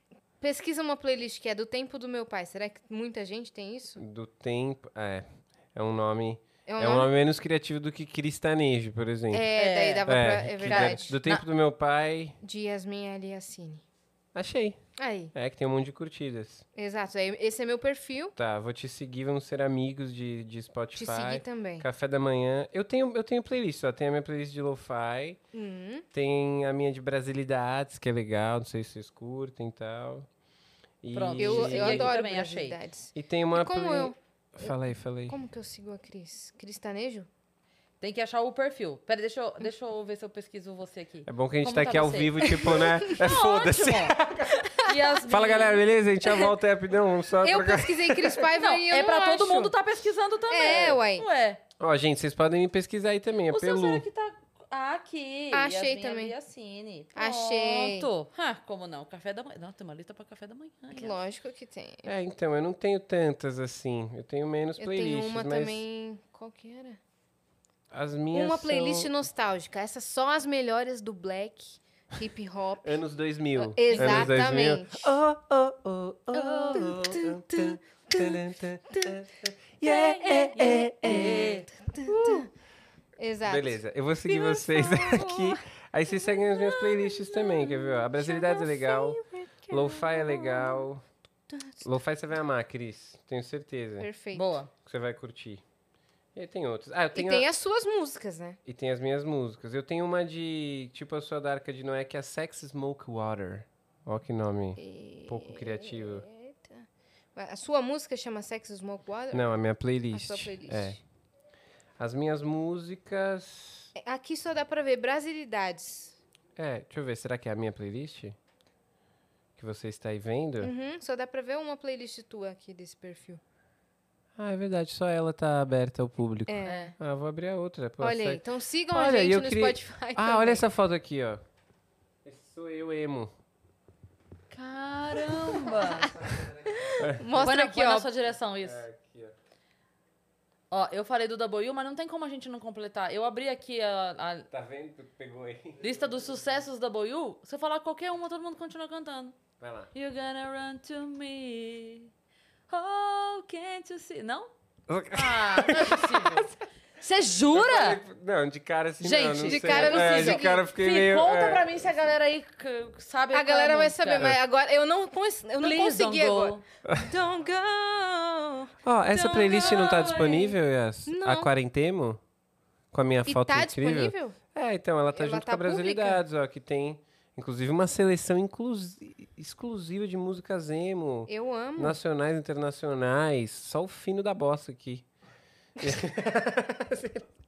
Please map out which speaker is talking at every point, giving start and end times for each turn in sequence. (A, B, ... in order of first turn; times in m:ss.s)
0:00.4-0:04.0 A
0:04.0-0:09.5 B
0:06.7-0:07.1 A
0:09.3-0:11.2 A
0:09.5-0:11.4 C
0:10.0-0:12.4 B
0:12.4-0:13.8 A
0:14.3-0:14.8 B
0:15.0-0:15.3 A
0:15.3-0:16.6 B
0:16.7-0:18.3 A
0:18.4-0:25.4 B
0:20.9-0:21.9 A
0:25.5-0:26.0 A
0:26.1-0:30.3 B
0:31.0-0:32.1 B
0:31.1-0:32.8 C
0:31.4-0:34.7 A
0:33.1-0:35.4 B
0:35.3-0:37.3 A
0:38.0-0:44.2 C
0:41.2-0:44.7 B
0:44.8-0:45.8 C
0:45.3-0:48.5 B
0:47.4-0:49.7 A
0:48.6-0:51.6 C
0:50.5-0:51.2 A
0:51.8-0:54.0 B
0:53.5-1:01.2 C
0:55.5-0:56.3 A
0:57.1-0:58.1 A
1:00.9-1:02.1 A
1:02.0-1:05.8 B
1:04.8-1:07.0 A
1:07.9-1:09.1 B
1:08.3-1:13.0 A
1:12.8-1:22.4 B
1:13.6-1:15.1 A
1:13.9-1:14.4 C
1:16.3-1:18.4 A
1:19.8-1:21.7 C
1:20.3-1:22.5 A
1:23.2-1:30.9 A
1:23.4-1:31.0 B
1:31.5-1:31.8 A
1:31.8-1:34.1 B
1:34.0-1:34.5 A
1:34.3-1:34.7 C
1:34.8-1:35.6 B
1:36.3-1:37.5 B
1:37.1-1:38.6 A
1:38.6-1:46.2 B
1:44.8-1:49.5 A
1:49.3-1:51.0 B
1:50.1-1:51.0 A
1:52.0-1:53.9 B
1:54.0-1:56.2 A
1:56.6-1:58.4 B
1:59.6-2:00.7 B
2:00.6-2:03.4 A
2:04.4-2:11.4 B
2:06.5-2:06.9 A
2:06.6-2:06.9 C
2:08.0-2:10.6 A
2:12.2-2:13.3 B
2:14.5-2:16.1 C
2:15.5-2:17.3 B
2:16.7-2:18.1 A
2:17.3-2:18.8 C
2:18.6-2:19.3 B
2:20.7-2:24.5 C
2:24.5-2:26.0 B
2:25.8-2:29.4 C
2:29.6-2:29.9 B
2:29.9-2:32.1 C
2:32.7-2:34.5 C
2:34.9-2:36.6 B
2:35.1-2:36.5 C
2:37.0-2:38.0 C
2:37.5-2:41.7 B
2:39.0-2:44.3 C
2:39.4-2:40.6 A
2:43.3-2:50.5 A
2:45.6-2:46.6 C
2:48.8-2:52.2 B
2:49.1-2:50.5 C
2:51.1-2:51.5 A
2:52.9-3:05.0 B
2:53.2-2:54.4 A
2:55.1-2:56.2 A
3:01.3-3:02.0 A
3:05.8-3:07.3 B